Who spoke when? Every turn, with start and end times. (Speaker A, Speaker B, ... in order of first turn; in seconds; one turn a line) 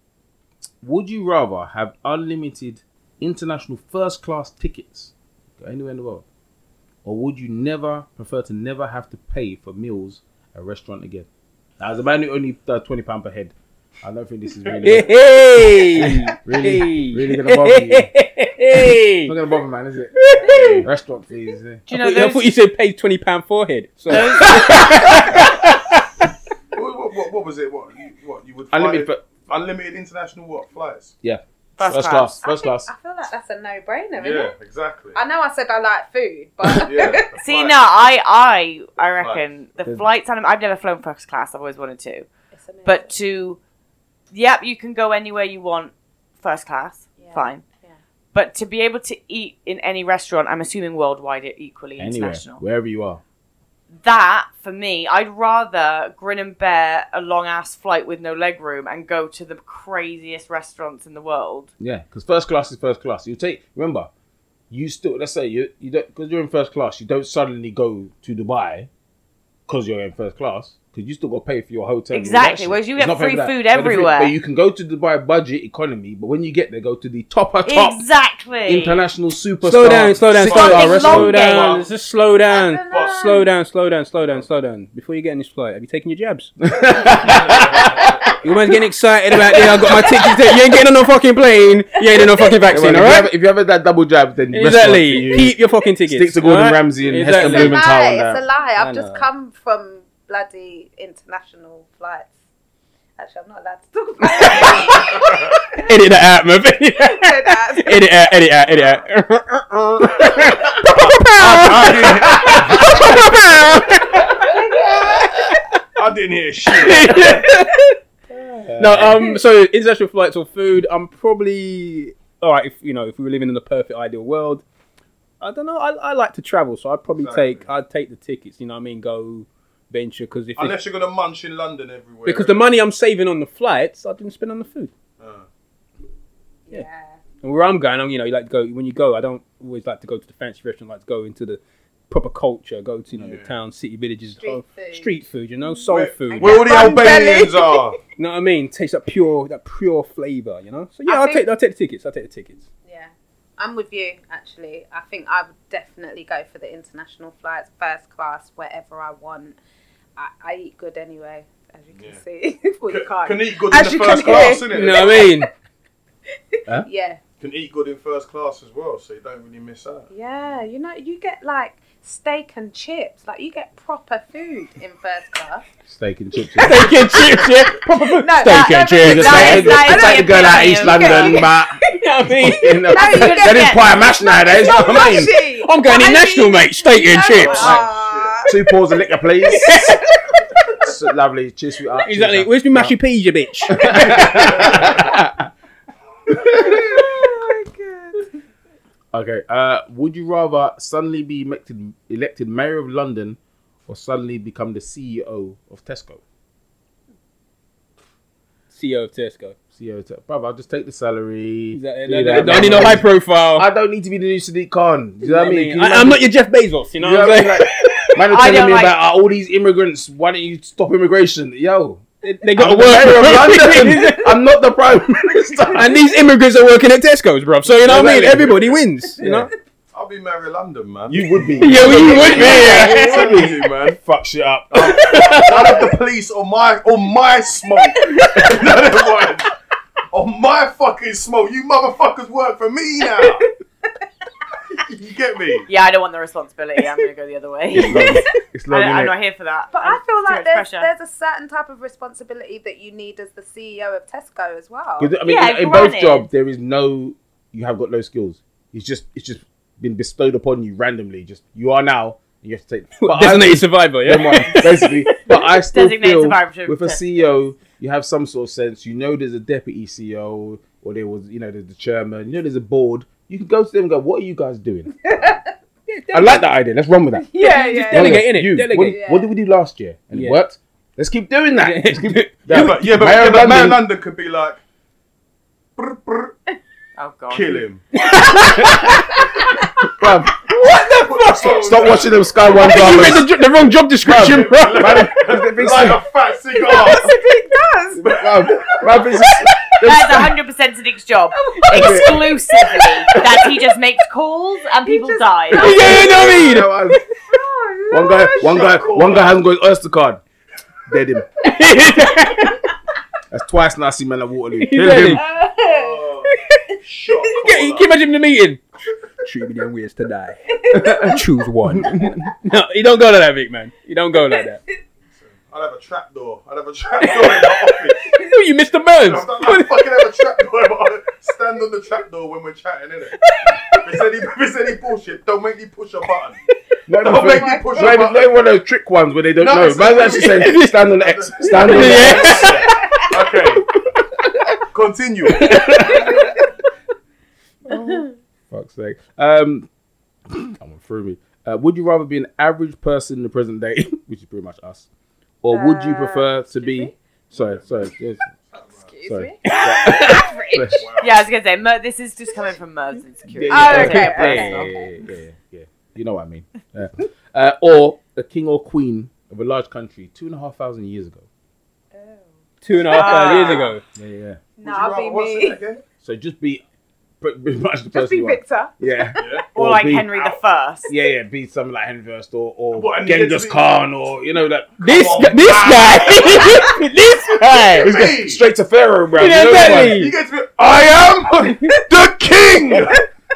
Speaker A: 0.8-6.2
Speaker A: 7.0-11.3
Speaker A: 11.8-18.1
Speaker B: 14.8-19.4
Speaker A: 19.2-21.8
Speaker B: 20.1-20.9
Speaker C: 20.4-20.9
Speaker D: 21.9-22.5
Speaker B: 21.9-26.3
Speaker D: 24.1-25.3
Speaker C: 26.7-31.1
Speaker A: 28.7-29.2
Speaker A: 31.2-32.9
Speaker D: 31.8-32.4
Speaker E: 32.4-34.5
Speaker C: 34.2-35.2
Speaker E: 35.1-37.3
Speaker C: 36.8-37.8
Speaker D: 37.4-42.3
Speaker C: 39.2-39.4
Speaker E: 42.5-43.1
Speaker D: 42.8-43.6
Speaker D: 44.3-47.6
Speaker E: 47.2-48.0
Speaker D: 48.3-52.6
Speaker A: 52.0-53.2
Speaker D: 54.0-61.7
Speaker A: 61.8-64.1
Speaker A: 64.7-68.9
Speaker A: 69.7-78.0
Speaker D: 72.1-74.3
Speaker D: 77.6-79.0
Speaker A: 78.6-81.6
Speaker B: 79.6-86.5
Speaker D: 80.3-81.9
Speaker C: 81.4-81.9
Speaker E: 82.5-83.5
Speaker C: 82.9-83.3
Speaker A: 86.6-88.5
Speaker C: 87.1-88.4
Speaker B: 88.3-93.3
Speaker A: 89.3-90.0
Speaker A: 92.7-98.4
Speaker B: 94.5-97.8
Speaker E: 97.4-102.3
Speaker B: 98.8-99.3
Speaker E: 103.2-105.8
Speaker B: 104.2-115.8
Speaker E: 107.0-108.0
Speaker C: 111.2-113.2
Speaker E: 114.5-115.3
Speaker C: 116.0-117.4
Speaker B: 116.7-118.0
Speaker A: 118.3-119.2
Speaker B: 118.8-124.6
Speaker B: 125.4-130.8
Speaker C: 127.1-127.7
Speaker C: 130.6-132.7
Speaker B: 132.2-134.9
Speaker C: 135.2-135.4
Speaker E: 136.7-137.2
Speaker B: 137.4-147.2
Speaker C: 143.1-143.5
Speaker E: 144.4-147.9
Speaker C: 145.9-148.0
Speaker B: 148.2-152.7
Speaker E: 151.1-151.4
Speaker E: 152.8-159.6
Speaker E: 160.2-165.5
Speaker C: 161.9-162.2
Speaker C: 162.9-165.3
Speaker B: 164.7-165.5
Speaker E: 166.5-167.2
Speaker C: 167.4-170.1
Speaker E: 170.1-175.6
Speaker A: 175.8-177.1
Speaker B: 176.6-179.8
Speaker E: 176.7-188.7
Speaker A: 179.0-185.3
Speaker D: 179.1-181.5
Speaker B: 181.8-182.9
Speaker D: 182.9-184.1
Speaker B: 185.5-187.8
Speaker C: 187.3-188.4
Speaker A: 188.5-189.9
Speaker B: 189.5-190.2
Speaker A: 190.8-192.9
Speaker B: 192.0-195.1
Speaker A: 193.7-195.4
Speaker E: 196.5-198.3
Speaker A: 199.1-206.2
Speaker B: 208.7-209.6
Speaker A: 209.7-216.3
Speaker B: 211.7-213.7
Speaker B: 215.2-218.3
Speaker A: 217.0-222.0
Speaker D: 218.3-218.9
Speaker B: 222.2-224.4
Speaker A: 222.6-226.0
Speaker B: 225.7-229.5
Speaker A: 227.8-229.5
Speaker C: 229.9-234.0
Speaker A: 231.1-235.4
Speaker B: 231.6-233.4
Speaker B: 234.8-235.8
Speaker C: 234.9-239.5
Speaker E: 238.0-238.3
Speaker A: 238.3-238.6
Speaker C: 240.1-243.5
Speaker E: 243.2-243.4
Speaker C: 244.7-245.7
Speaker D: 245.7-250.9
Speaker A: 247.7-249.1
Speaker E: 249.7-255.1
Speaker A: 255.0-275.3
Speaker D: 255.2-256.2
Speaker B: 263.0-265.4
Speaker D: 265.4-267.4
Speaker E: 275.0-275.5
Speaker B: 275.9-276.4
Speaker A: 276.1-283.8
Speaker E: 277.3-278.3
Speaker B: 277.3-279.0
Speaker E: 278.9-279.3
Speaker B: 280.1-280.4
Speaker B: 281.6-282.8
Speaker C: 282.5-284.6
Speaker C: 285.8-286.4
Speaker D: 287.0-287.7
Speaker C: 287.3-287.9
Speaker B: 287.9-289.3
Speaker E: 288.4-289.5
Speaker A: 289.8-290.4
Speaker B: 290.5-291.8
Speaker C: 290.5-293.2
Speaker A: 291.4-293.3
Speaker B: 292.4-295.1
Speaker C: 294.0-297.1
Speaker A: 294.1-296.0
Speaker E: 296.5-298.2
Speaker A: 298.0-300.4
Speaker C: 298.1-299.0
Speaker D: 299.8-305.9
Speaker E: 301.3-302.9
Speaker A: 301.7-302.2
Speaker E: 304.8-306.2
Speaker B: 305.5-307.0
Speaker A: 305.5-307.0
Speaker E: 307.3-308.9
Speaker A: 307.9-310.2
Speaker C: 308.4-309.4
Speaker A: 310.9-311.3
Speaker B: 311.4-312.7
Speaker A: 313.3-315.2
Speaker B: 314.6-315.2
Speaker E: 315.0-316.1
Speaker C: 315.6-317.9
Speaker E: 316.7-317.3
Speaker B: 317.3-318.6
Speaker B: 319.2-324.6
Speaker E: 320.5-321.2
Speaker A: 320.7-322.1
Speaker C: 325.1-328.2
Speaker B: 327.0-330.2
Speaker C: 329.0-333.2
Speaker B: 333.2-333.8
Speaker E: 333.6-333.8
Speaker C: 333.7-336.4
Speaker A: 336.9-342.6
Speaker C: 337.0-338.4
Speaker E: 337.1-337.9
Speaker C: 339.4-343.6
Speaker B: 340.2-340.8
Speaker B: 341.4-343.1
Speaker E: 342.6-343.0
Speaker C: 344.7-345.6
Speaker A: 345.4-346.3
Speaker B: 345.4-345.9
Speaker E: 345.9-346.3
Speaker E: 347.7-348.1
Speaker A: 347.7-349.7
Speaker A: 350.3-354.9
Speaker A: 355.4-358.2
Speaker E: 355.5-356.9
Speaker C: 357.3-358.9
Speaker E: 358.5-360.6
Speaker A: 359.1-360.8
Speaker B: 359.4-360.3
Speaker D: 359.8-364.7
Speaker C: 360.7-361.3
Speaker A: 363.3-371.2
Speaker E: 363.5-364.8
Speaker B: 363.7-364.8
Speaker E: 371.9-373.7
Speaker B: 372.6-373.8
Speaker D: 372.9-373.7
Speaker A: 373.9-374.4
Speaker E: 374.6-375.6
Speaker C: 374.6-375.8
Speaker A: 376.0-376.6
Speaker A: 377.2-380.1
Speaker E: 377.9-379.2
Speaker C: 379.2-379.5
Speaker D: 379.5-380.9
Speaker C: 380.1-380.4
Speaker A: 380.9-385.2
Speaker C: 382.7-383.6
Speaker B: 384.8-387.9
Speaker C: 384.8-386.8
Speaker C: 387.5-388.4
Speaker A: 387.8-390.1
Speaker B: 389.1-390.1
Speaker C: 389.4-393.0
Speaker B: 391.4-391.8